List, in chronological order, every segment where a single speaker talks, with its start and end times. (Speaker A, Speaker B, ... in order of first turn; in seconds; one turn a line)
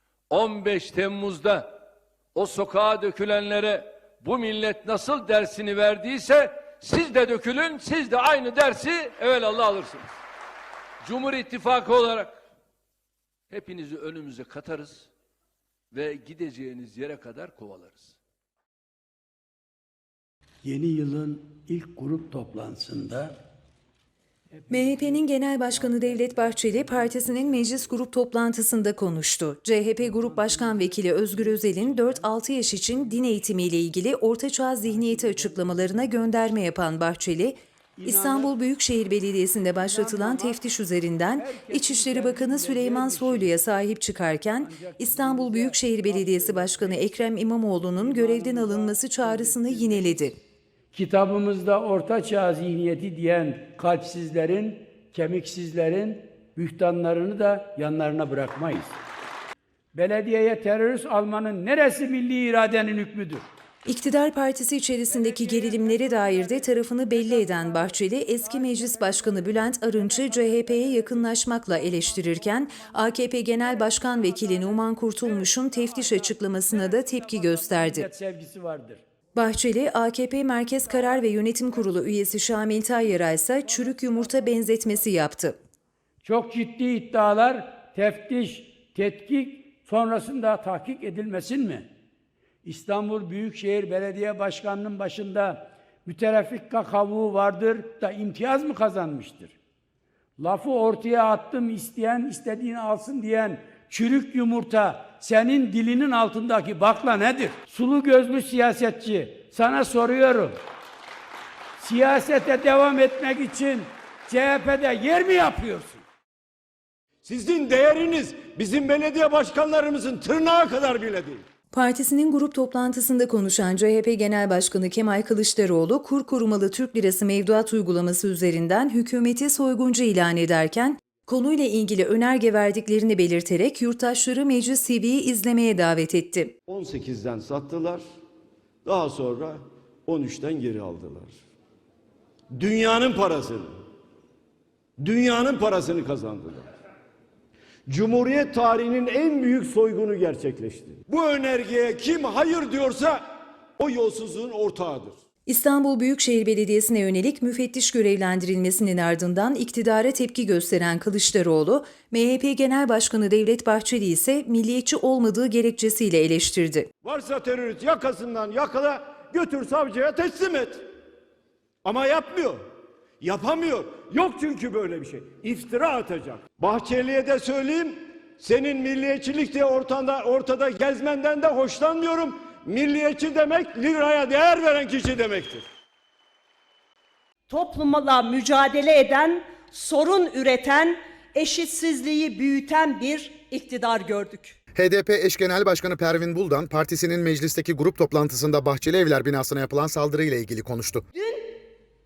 Speaker A: 0.3-1.8
Speaker A: 2.3-10.1
Speaker A: 11.0-12.4
Speaker A: 13.5-15.1
Speaker A: 15.9-18.1
Speaker B: 20.6-23.4
Speaker C: 24.7-50.4
Speaker B: 24.7-25.2
Speaker B: 25.7-27.6
Speaker B: 30.1-32.2
Speaker B: 34.9-36.0
Speaker B: 38.0-38.5
Speaker B: 39.9-40.6
Speaker B: 41.4-43.5
Speaker B: 44.6-47.1
Speaker B: 48.0-50.1
Speaker B: 50.9-58.9
Speaker B: 59.9-63.5
Speaker C: 63.8-78.1
Speaker B: 77.2-79.0
Speaker C: 79.3-85.5
Speaker B: 86.2-91.9
Speaker B: 92.6-99.5
Speaker B: 100.4-110.6
Speaker B: 111.8-116.0
Speaker D: 117.2-121.4
Speaker C: 121.7-136.5
Speaker D: 136.7-138.0
Speaker D: 138.8-141.3
Speaker D: 142.5-143.7
Speaker D: 145.0-146.7
Speaker D: 147.9-153.2
Speaker D: 153.8-155.2
Speaker C: 155.5-166.9
Speaker D: 167.0-170.9
Speaker D: 171.8-172.6
Speaker D: 173.2-185.6
Speaker E: 187.5-194.6
Speaker F: 194.8-201.0
Speaker E: 201.1-201.6